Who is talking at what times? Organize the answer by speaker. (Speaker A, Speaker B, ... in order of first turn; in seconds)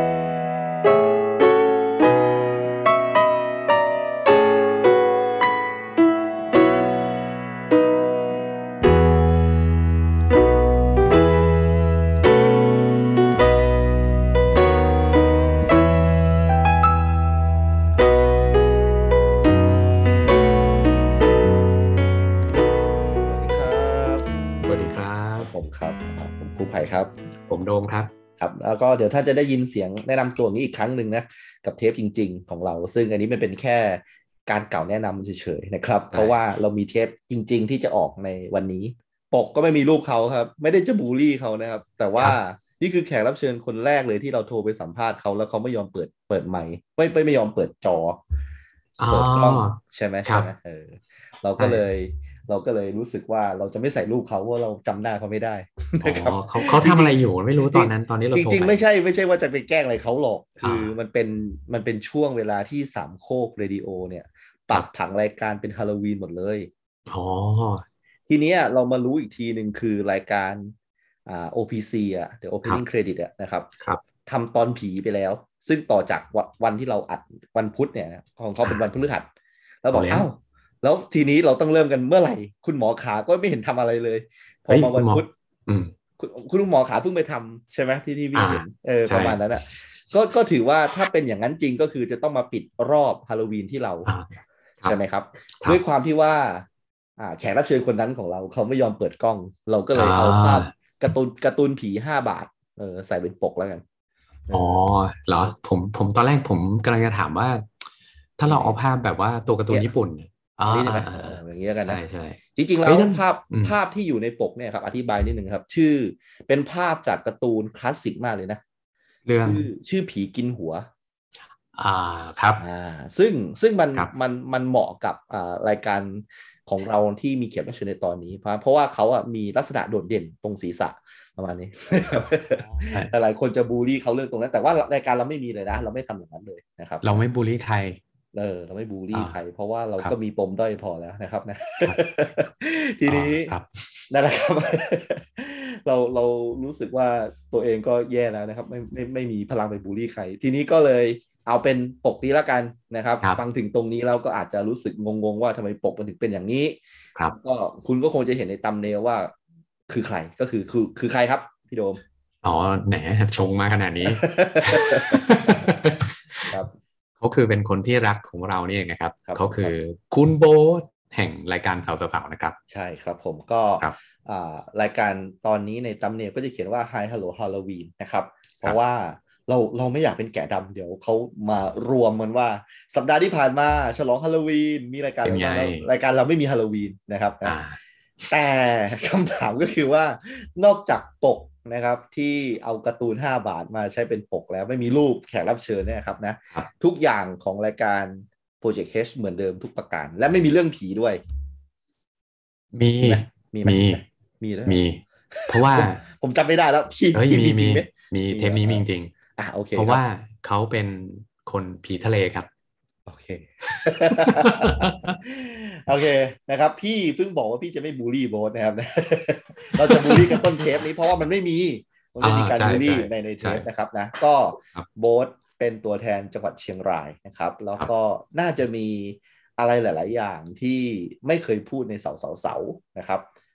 Speaker A: 23.2-27.1, 28.4-48.2, 49.1-66.7, 68.3-70.7, 71.2-73.7, 74.2-79.3, 79.8-85.3, 86.2-94.1, 94.8-96.7, 97.2-103.8, 104.5-104.8, 108.5-108.8, 110.7-112.0, 112.5-118.6, 119.4-120.9, 122.6-137.2, 138.3-143.5, 144.1-156.8, 157.3-159.3, 159.9-162.0, 164.0-165.7, 166.5-166.8, 169.3-169.7, 172.7-187.6, 188.3-201.2, 203.0-204.8, 205.3-208.8, 209.3-210.0, 213.1-233.3
Speaker B: 24.6-25.5, 27.4-28.1, 49.0-50.5, 51.6-51.8, 56.0-58.8, 60.6-60.9, 67.1-67.8, 79.9-80.2, 84.7-85.9, 88.3-89.4, 99.9-100.7, 104.5-107.7, 108.4-113.7, 119.2-119.6, 121.8-122.6, 132.5-133.1, 137.0-138.0, 143.1-143.7, 162.4-166.1, 167.2-172.6, 185.2-185.9, 187.4-187.8, 202.7-204.0, 204.7-206.0, 207.1-209.1, 209.8-212.5, 214.1-215.2, 222.2-223.6